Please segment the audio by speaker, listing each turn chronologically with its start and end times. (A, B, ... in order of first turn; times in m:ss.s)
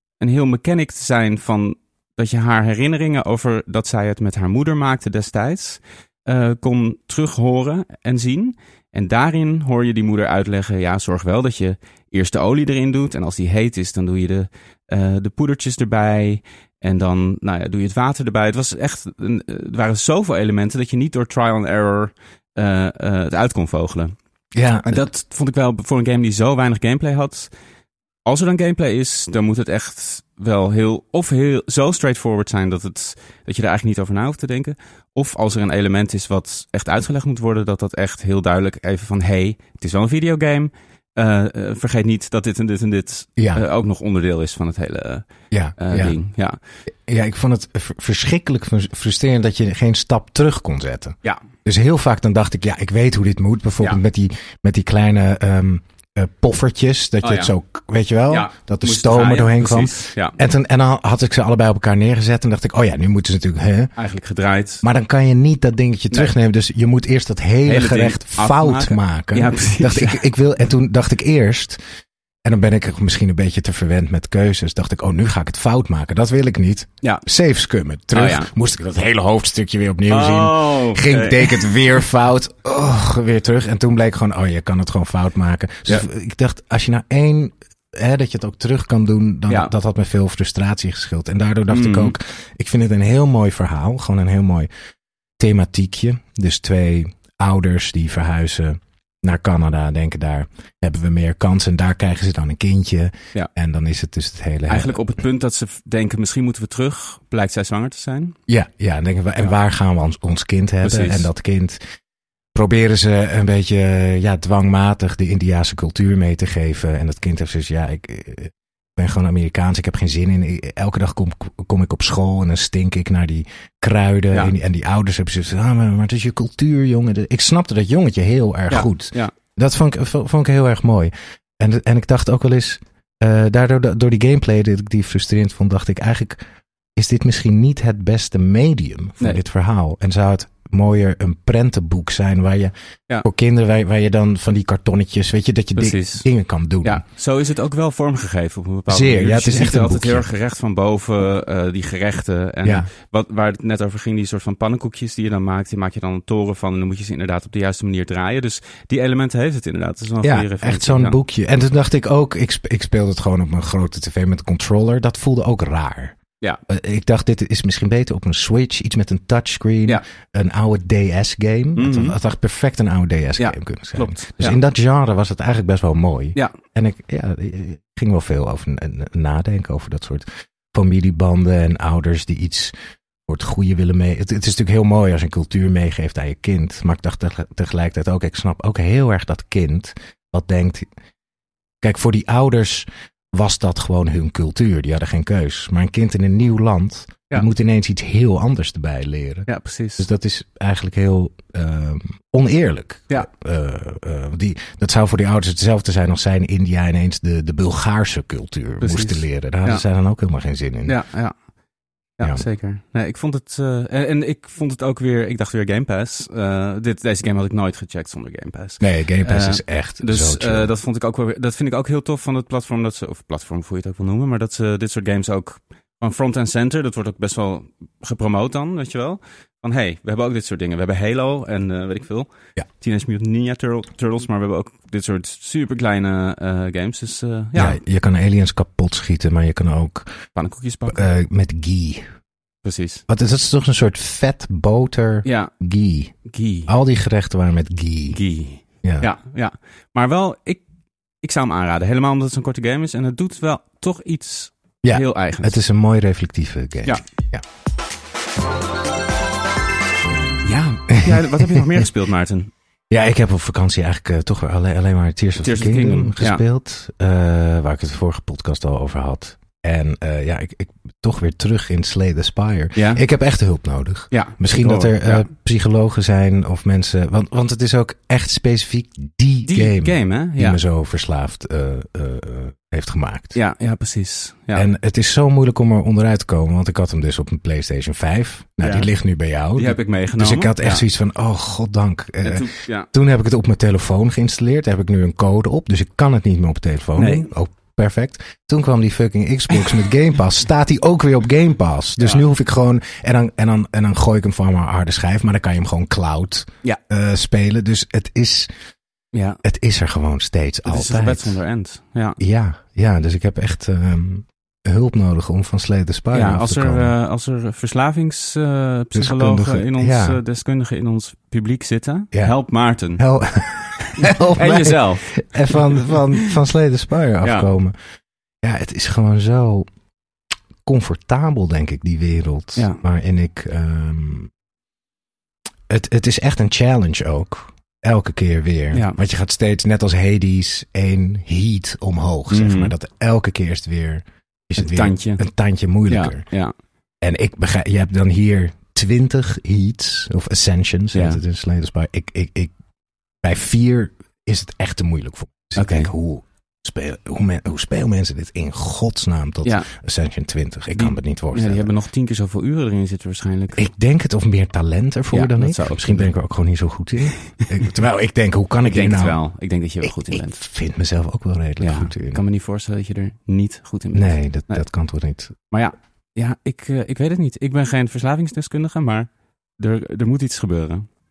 0:00.2-0:24.2 A
0:24.6-0:25.0 B
0:24.9-0:27.5 A
0:28.2-0:46.6 A
0:43.4-0:43.6 B
0:45.5-0:46.2 B
0:47.1-1:03.9 B
0:57.2-0:57.5 A
0:58.3-1:00.4 A
1:04.0-1:04.8 A
1:04.8-1:11.8 B
1:07.6-1:10.2 A
1:12.4-1:34.7 B
1:18.1-1:18.5 A
1:20.1-1:21.8 A
1:31.7-1:32.2 A
1:35.4-1:45.0 B
1:44.7-1:48.4 A
1:48.5-1:51.8 B
1:50.8-1:51.3 A
1:52.6-2:16.4 B
2:08.7-2:09.3 A
2:17.0-2:27.0 B
2:25.8-2:26.3 A
2:26.8-2:41.2 A
2:28.9-2:30.3 B
2:32.6-2:32.9 B
2:40.2-2:46.2 B
2:46.7-3:02.7 B
2:51.8-2:52.1 A
2:53.4-2:54.6 A
3:03.3-3:10.9 B
3:11.8-3:31.0 B
3:19.5-3:20.1 A
3:28.8-3:29.8 A
3:30.9-3:31.3 A
3:32.2-3:57.8 A
3:38.8-3:40.7 B
3:57.6-4:00.1 B
4:00.4-4:01.1 A
4:00.9-4:02.0 B
4:02.6-4:03.0 A
4:03.1-4:06.2 B
4:05.2-4:05.5 A
4:06.3-4:06.7 A
4:06.7-4:08.2 B
4:08.1-4:10.6 A
4:08.8-4:09.1 B
4:11.2-4:15.6 A
4:14.8-4:17.4 B
4:20.4-4:22.5 A
4:20.9-4:21.8 B
4:22.9-4:43.4 B
4:25.4-4:26.4 A
4:32.8-4:33.0 A
4:34.1-4:35.3 A
4:39.4-4:40.6 A
4:43.3-4:44.7 A
4:44.5-5:08.5 B
4:48.6-4:48.9 A
4:49.6-4:50.8 A
4:52.2-4:52.9 A
4:57.0-4:57.3 A
5:09.1-5:09.4 A
5:09.4-5:11.4 B
5:10.7-5:12.2 A
5:12.2-5:16.9 B
5:16.1-5:23.0 A
5:18.9-5:20.2 B
5:23.0-5:27.8 B
5:23.8-5:26.3 A
5:27.2-5:27.5 A
5:28.4-5:29.7 B
5:30.7-5:34.3 B
5:35.7-5:46.2 B
5:42.3-5:42.7 A
5:44.6-5:45.2 A
5:45.9-5:46.5 A
5:47.0-5:52.5 B
5:50.9-5:51.2 A
5:53.2-6:01.7 B
5:55.6-5:55.9 A
6:00.8-6:03.7 A
6:03.6-6:09.2 B
6:05.1-6:06.1 A
6:08.7-6:10.4 A
6:09.8-6:12.2 B
6:11.6-6:14.6 A
6:13.9-6:15.3 B
6:15.5-6:20.9 A